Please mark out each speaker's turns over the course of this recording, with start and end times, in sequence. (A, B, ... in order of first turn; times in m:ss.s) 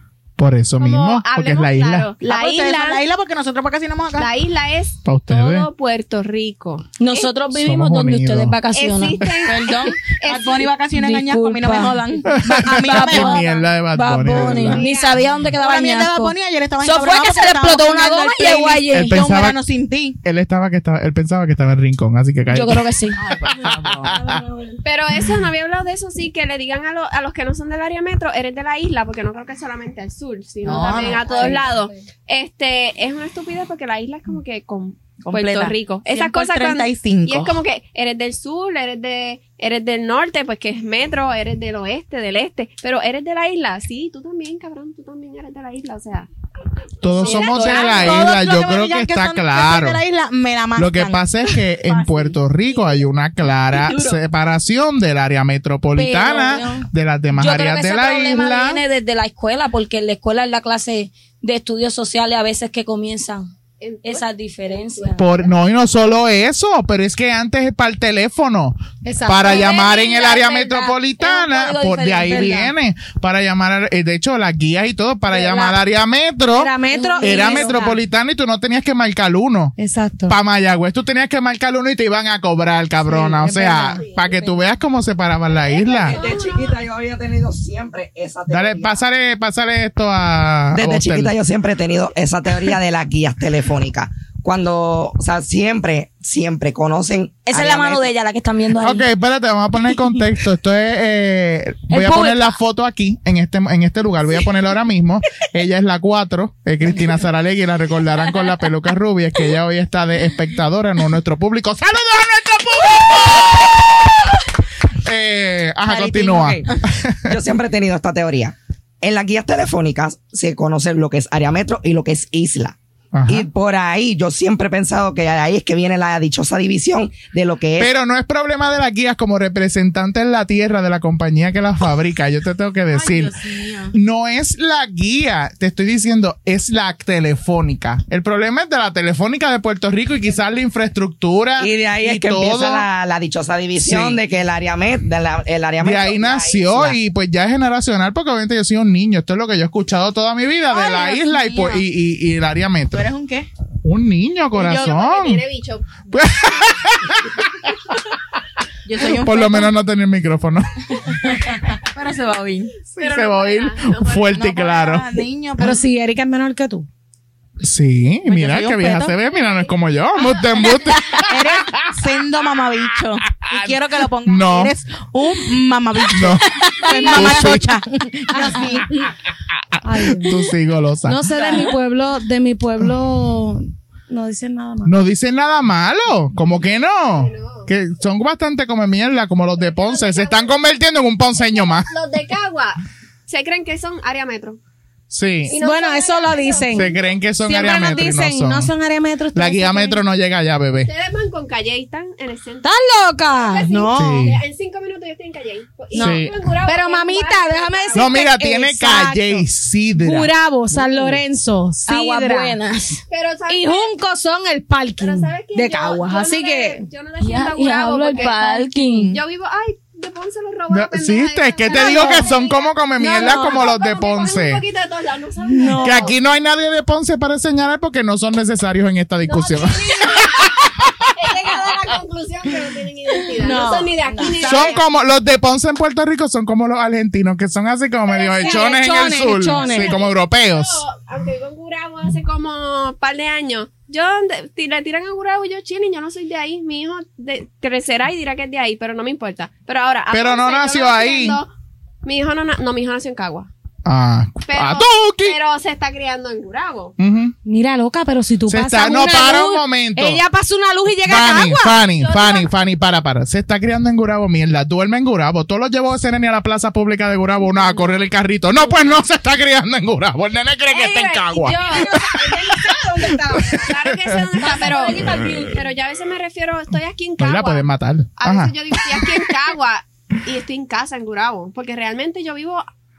0:00.4-0:02.1 A
0:00.8-0:03.0 B
0:02.2-0:04.3 C
0:04.2-0:07.3 B
0:05.0-0:05.7 A
0:07.0-0:09.5 D
0:07.5-0:08.6 A
0:08.7-0:10.7 B
0:09.4-0:13.5 C
0:10.9-0:19.2 D
0:12.3-0:14.8 A
0:14.6-0:15.2 B
0:15.5-0:20.2 C
0:18.9-0:19.6 A
0:20.2-0:22.9 A
0:22.5-0:23.2 D
0:23.2-0:24.1 C
0:23.4-0:24.4 A
0:24.1-0:24.8 D
0:24.8-0:46.3 B
0:30.6-0:31.7 C
0:35.2-0:37.6 C
0:47.0-0:50.0 A
0:47.0-0:48.2 B
0:47.2-0:48.2 D
0:47.7-0:52.4 C
0:50.8-0:58.8 A
0:53.7-0:54.2 B
0:56.0-0:56.9 E
0:57.4-1:03.5 D
1:03.8-1:05.6 B
1:04.0-1:05.2 D
1:05.2-1:19.8 A
1:09.0-1:09.7 E
1:09.4-1:10.4 B
1:09.5-1:12.7 D
1:12.3-1:12.7 E
1:15.3-1:15.8 E
1:16.5-1:18.0 E
1:16.9-1:17.8 D
1:19.8-1:20.4 E
1:20.3-1:26.2 A
1:23.0-1:24.1 E
1:24.0-1:24.5 B
1:25.5-1:26.8 B
1:26.0-1:29.0 F
1:28.5-1:31.3 A
1:30.7-1:38.1 F
1:37.5-1:39.0 D
1:38.8-1:53.9 A
1:41.9-1:42.5 D
1:55.0-1:57.3 A
1:55.9-1:56.7 F
1:57.3-2:07.9 F
2:03.1-2:03.5 A
2:07.8-2:13.4 A
2:12.9-2:13.9 C
2:13.9-2:22.9 A
2:21.6-2:27.0 F
2:23.7-2:24.2 A
2:25.8-2:33.1 A
2:30.7-2:31.8 C
2:32.9-2:33.5 C
2:33.8-2:35.4 A
2:34.5-2:34.9 C
2:34.6-2:36.8 B
2:36.1-2:37.6 A
2:38.8-2:39.7 C
2:39.0-2:41.3 A
2:41.4-2:42.7 C
2:43.0-2:45.1 A
2:43.0-2:44.5 B
2:44.3-2:45.8 C
2:45.6-2:46.9 E
2:47.6-2:51.8 A
2:48.2-2:49.2 C
2:51.1-2:59.0 C
2:54.2-2:54.7 A
2:56.1-2:57.8 A
2:56.8-2:57.5 E
2:58.3-2:58.8 E
2:59.8-3:00.5 E
3:00.1-3:01.2 A
3:01.0-3:04.9 E
3:04.8-3:11.9 A
3:07.1-3:07.7 B
3:09.6-3:10.5 B
3:11.4-3:14.6 B
3:15.1-3:15.6 A
3:15.5-3:17.0 B
3:15.6-3:20.0 E
3:16.7-3:18.7 A
3:19.3-3:20.9 A
3:20.8-3:22.8 B
3:22.6-3:24.2 E
3:23.3-3:28.2 B
3:23.9-3:24.4 A
3:25.9-3:32.6 E
3:26.0-3:26.3 A
3:27.9-3:30.3 A
3:31.9-3:33.0 D
3:33.1-3:33.9 B
3:33.5-3:36.8 E
3:35.0-3:46.1 B
3:37.2-3:39.2 D
3:40.7-3:44.6 A
3:41.7-3:42.3 E
3:43.0-3:43.6 E
3:45.4-3:46.1 E
3:45.8-3:51.1 A
3:49.3-3:54.8 B
3:53.4-3:54.4 E
3:54.2-3:54.7 C
3:54.4-4:00.8 A
3:58.1-4:11.5 B
3:58.4-4:00.0 E
4:10.1-4:11.4 A
4:12.0-4:13.5 B
4:13.8-4:15.4 A
4:14.5-4:17.0 B
4:17.0-4:17.3 A
4:17.4-4:21.9 E
4:18.4-4:20.2 A
4:21.0-4:32.7 A
4:22.0-4:22.5 B
4:30.7-4:42.6 B
4:31.5-4:33.6 E
4:33.3-4:34.3 A
4:34.4-4:35.5 E
4:34.4-4:34.9 D
4:35.0-4:35.4 A
4:37.2-4:39.3 A